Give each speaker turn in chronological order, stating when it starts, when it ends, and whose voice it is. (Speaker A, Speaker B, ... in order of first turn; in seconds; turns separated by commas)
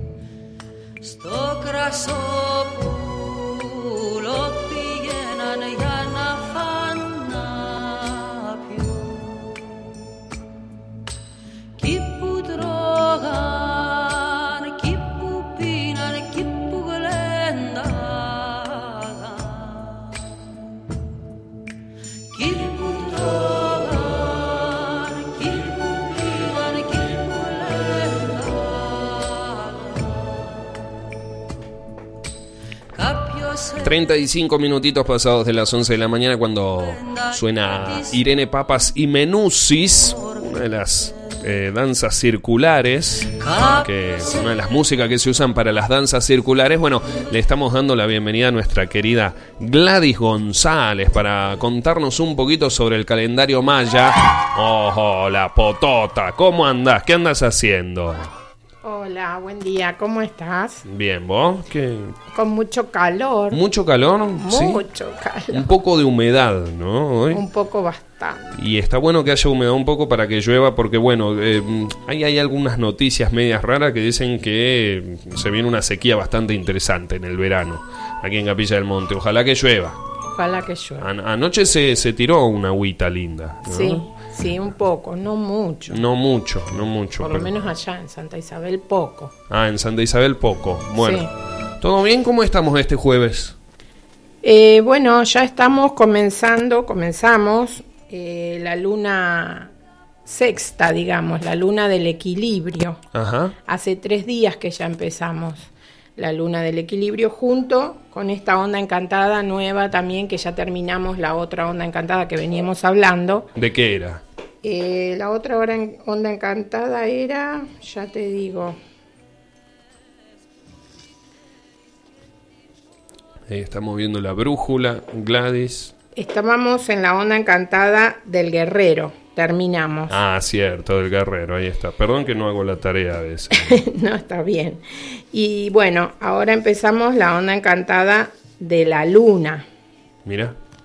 Speaker A: 1.0-9.8, Speaker A: 11.8-20.1, Speaker A: 22.3-30.3, Speaker A: 32.9-34.0, Speaker B: 33.8-58.3, Speaker A: 37.0-38.2, Speaker A: 43.4-44.5, Speaker C: 58.8-60.9, Speaker B: 60.9-62.2, Speaker C: 62.3-63.6, Speaker B: 63.5-64.8, Speaker C: 64.4-65.7, Speaker B: 65.5-67.4, Speaker C: 67.3-68.6, Speaker B: 68.5-80.0, Speaker C: 80.3-81.1, Speaker B: 81.0-84.0, Speaker C: 83.7-86.0, Speaker B: 85.9-87.6, Speaker C: 87.2-89.3, Speaker B: 89.5-91.3, Speaker C: 91.0-91.3, Speaker B: 91.8-93.6, Speaker C: 94.4-99.7, Speaker C: 100.2-103.0, Speaker B: 103.1-103.5, Speaker C: 103.7-113.5, Speaker B: 113.5-114.2, Speaker C: 114.6-118.8, Speaker B: 123.5-125.9, Speaker C: 126.2-130.2, Speaker B: 130.1-133.8, Speaker C: 133.5-139.7, Speaker B: 140.2-140.6